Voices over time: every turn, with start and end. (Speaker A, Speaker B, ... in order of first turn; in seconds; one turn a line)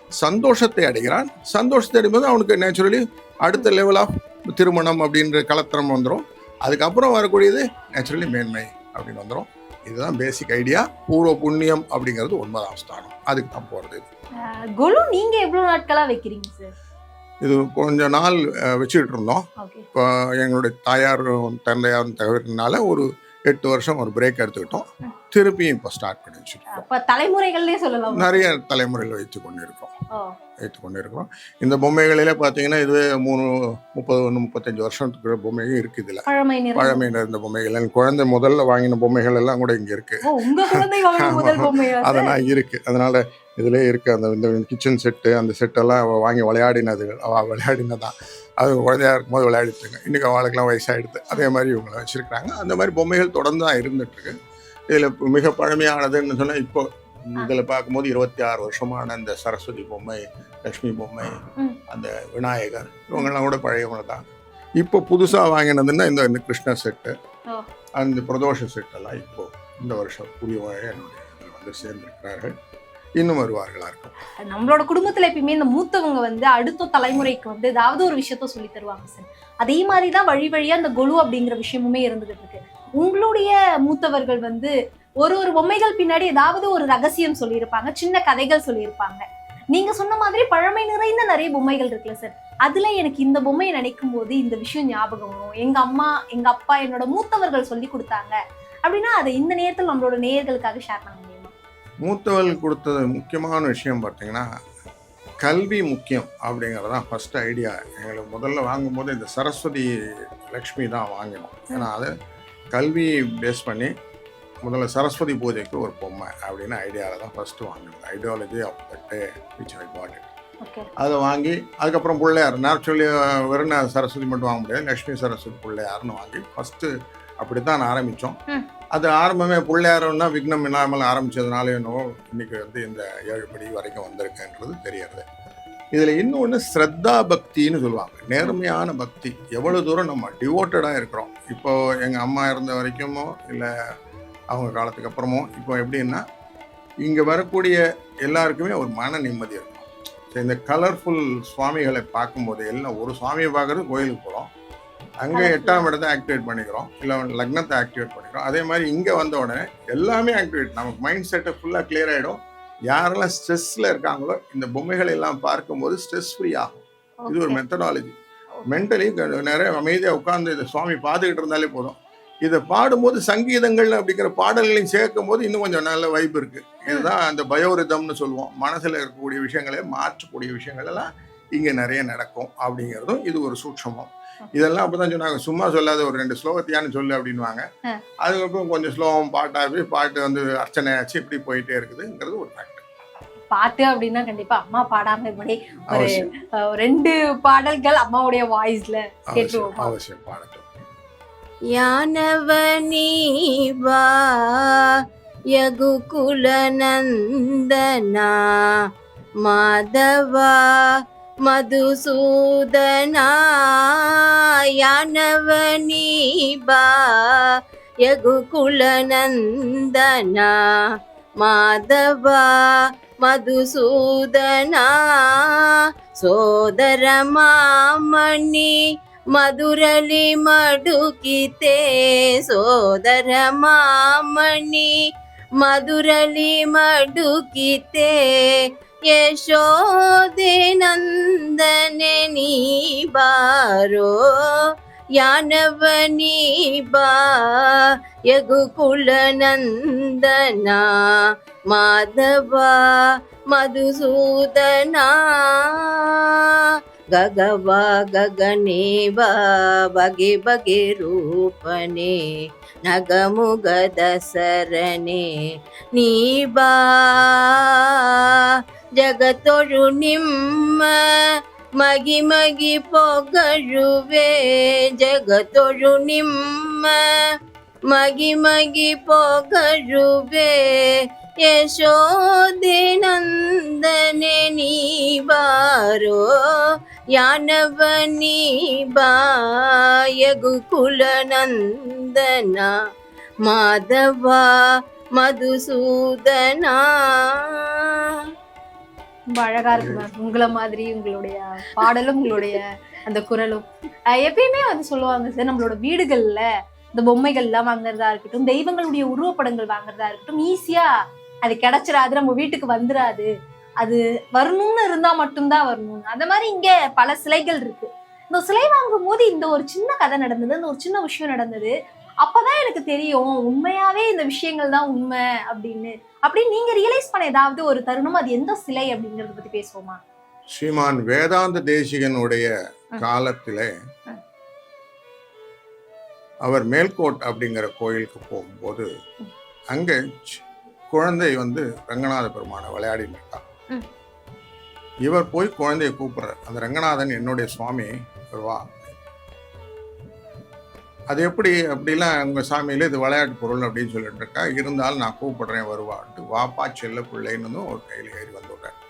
Speaker A: 0.2-14.1
Speaker B: 14.4-16.7
Speaker A: 17.4-26.9
Speaker B: 19.6-19.9
Speaker B: 26.7-28.5
Speaker A: 28.1-29.9
Speaker A: 30.6-54.3
Speaker B: 36.3-37.0
Speaker B: 40.2-42.3
Speaker A: 54.9-64.2
Speaker A: 64.8-67.1
Speaker A: 68.0-72.5
Speaker A: 73.2-74.1
Speaker B: 74.4-101.5
Speaker A: 102.0-104.5
Speaker A: 105.4-109.9
Speaker A: 110.5-112.1
Speaker A: 112.7-113.9
Speaker A: 114.6-120.3
Speaker B: 120.6-120.9
Speaker A: 121.0-128.4
Speaker A: 128.9-135.2
Speaker A: 135.9-143.7
Speaker A: 144.5-146.2
Speaker A: 147.0-154.5
Speaker A: 155.2-187.7
Speaker B: 155.3-155.9
Speaker B: 167.2-167.6
Speaker A: 188.2-192.8
Speaker B: 193.5-199.9
Speaker A: 195.9-196.3
Speaker A: 199.3-200.7
Speaker C: 201.7-204.9
Speaker C: 205.6-208.8
Speaker C: 209.4-217.5
Speaker C: 218.1-220.9
Speaker C: 221.4-228.8
Speaker C: 229.3-235.0
Speaker C: 235.6-265.4
Speaker C: 265.9-277.2
Speaker C: 277.9-286.6
Speaker C: 287.1-292.8
Speaker C: 293.5-298.2
Speaker B: 299.3-310.9
Speaker A: 299.7-300.1
Speaker B: 311.4-313.3
Speaker B: 313.8-330.0
Speaker A: 330.5-333.7
Speaker A: 336.4-338.9
Speaker A: 339.7-343.4
Speaker A: 345.1-348.9
Speaker A: 351.1-358.7